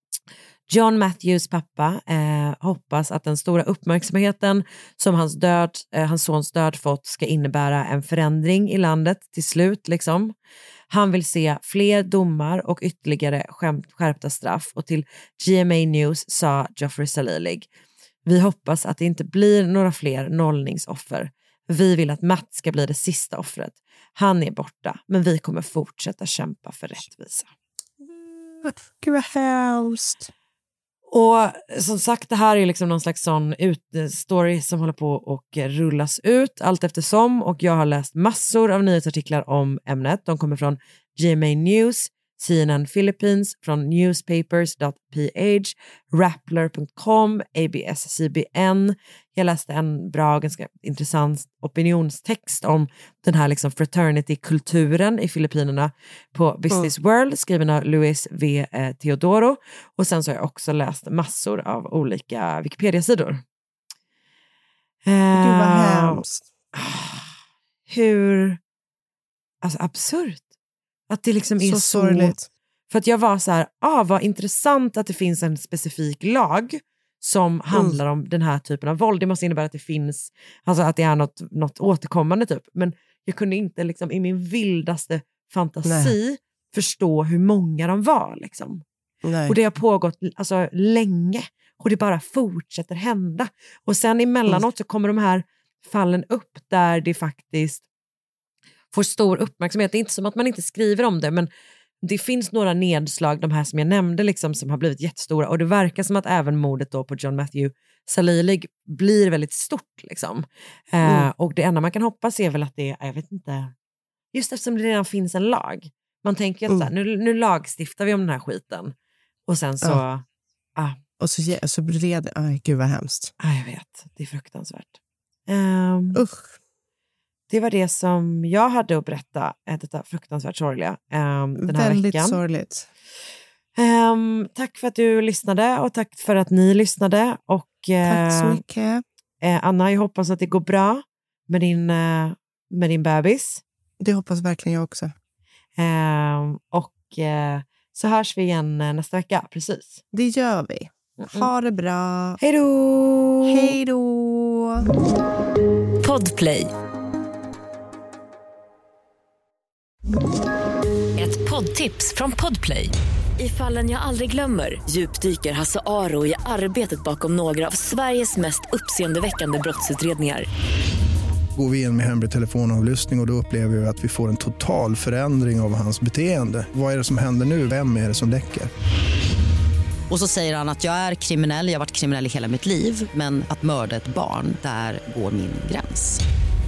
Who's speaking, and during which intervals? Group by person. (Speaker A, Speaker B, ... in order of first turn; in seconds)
Speaker A: 0.7-10.3, 10.9-17.7, 18.3-27.5, 31.1-63.4, 65.1-66.2, 66.7-67.3, 67.9-68.6, 69.6-70.5, 71.1-72.4, 72.9-88.8, 89.5-97.8, 98.9-101.5, 102.0-113.7, 114.3-118.9, 119.5-120.2, 123.4-125.0, 125.5-126.2, 127.5-132.4, 133.8-138.6, 139.4-143.6, 145.8-150.0, 151.2-151.5, 152.4-153.7
Speaker B: 28.0-30.3, 65.3-66.5, 71.6-72.5, 85.8-86.1, 89.2-89.5, 111.0-111.3, 121.2-123.3, 126.1-126.5, 131.6-132.9, 138.0-139.0, 144.0-145.1, 150.1-152.4, 153.4-154.9
Speaker C: 156.0-156.7, 161.2-170.5
Speaker D: 171.6-178.7
Speaker E: 180.1-186.2